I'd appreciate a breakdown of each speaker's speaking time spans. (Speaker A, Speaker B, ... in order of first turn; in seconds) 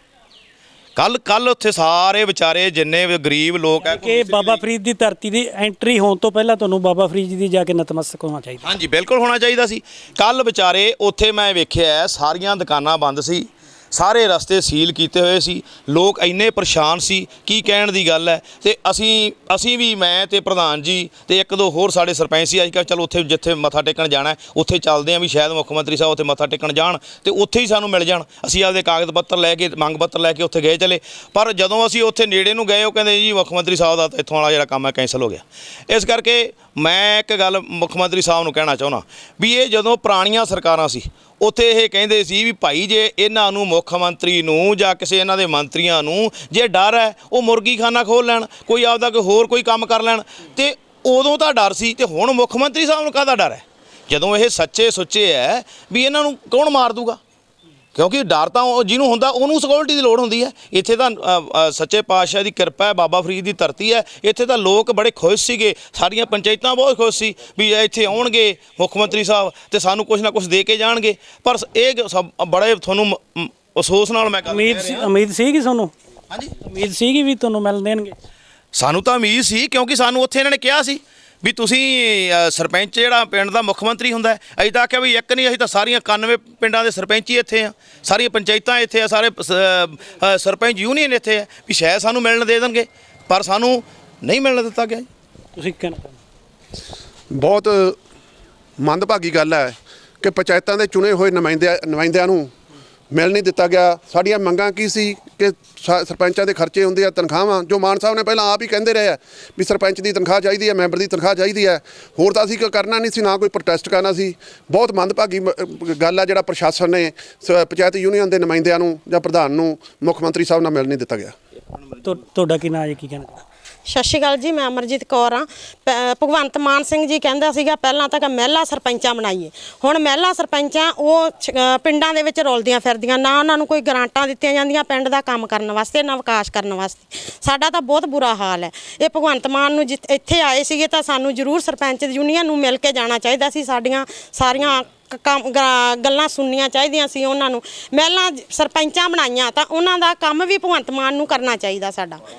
Speaker A: 0.9-4.6, 8.6-57.2, 57.9-75.1, 78.7-95.1
Speaker B: 3.8-8.7, 74.5-75.9, 76.6-78.1, 95.5-96.2, 122.0-123.4
Speaker C: 97.3-98.0, 98.8-102.5, 103.1-121.3
Speaker D: 123.9-152.1